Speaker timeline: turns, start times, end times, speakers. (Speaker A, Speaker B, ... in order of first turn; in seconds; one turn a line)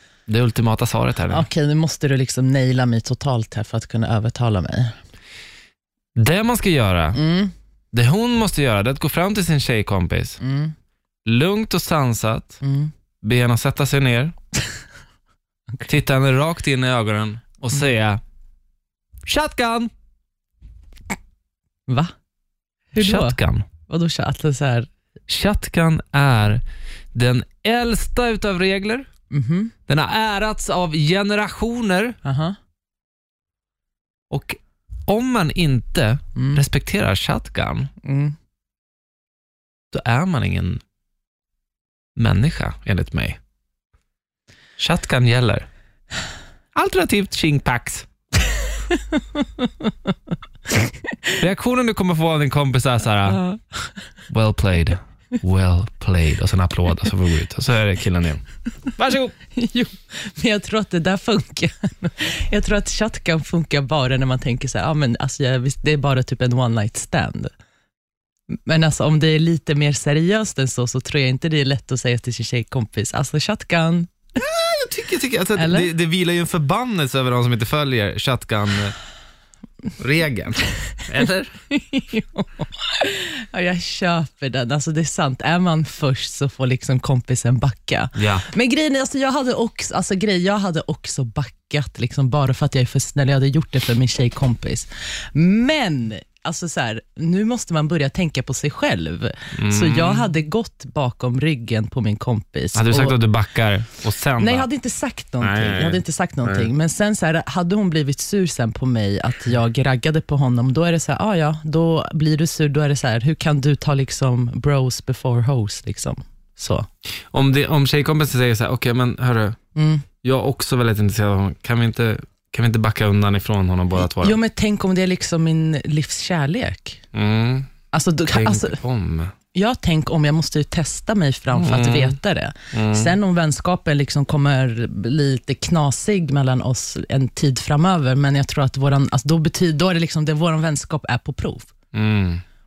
Speaker A: 0.3-1.4
Speaker B: 1.3-4.9
Speaker A: 6.2-7.2
Speaker B: 7.1-7.5
Speaker A: 7.9-10.4
Speaker B: 10.4-10.7
Speaker A: 11.2-12.6
Speaker B: 12.6-12.9
Speaker A: 13.2-14.3
Speaker A: 15.8-18.2
Speaker A: 19.2-19.9
Speaker B: 22.9-24.9
Speaker A: 23.0-23.6
Speaker A: 25.3-26.6
Speaker A: 27.1-29.1
Speaker B: 29.3-29.7
Speaker A: 29.9-32.2
Speaker B: 32.2-32.6
Speaker A: 34.3-37.9
Speaker B: 36.4-36.6
Speaker B: 38.0-38.3
Speaker A: 39.9-40.8
Speaker A: 42.1-43.4
Speaker A: 44.8-45.7
Speaker A: 46.7-48.1
Speaker B: 49.4-49.9
Speaker A: 51.4-53.5
Speaker A: 54.3-58.4
Speaker A: 58.9-59.3
Speaker B: 59.5-67.5
Speaker B: 68.7-74.1
Speaker A: 74.3-78.9
Speaker B: 75.5-75.9
Speaker A: 80.0-81.5
Speaker B: 81.7-103.2
Speaker A: 88.2-88.4
Speaker A: 99.5-100.3
Speaker A: 102.7-104.7
Speaker B: 104.4-116.8
Speaker A: 105.4-106.7
Speaker A: 117.3-119.6
Speaker B: 119.7-120.0
Speaker A: 120.2-124.4
Speaker B: 124.0-127.0
Speaker A: 127.1-127.7
Speaker B: 127.9-128.8
Speaker A: 128.3-129.3
Speaker B: 129.5-141.7
Speaker A: 131.5-132.2
Speaker A: 132.7-133.1
Speaker A: 141.9-142.4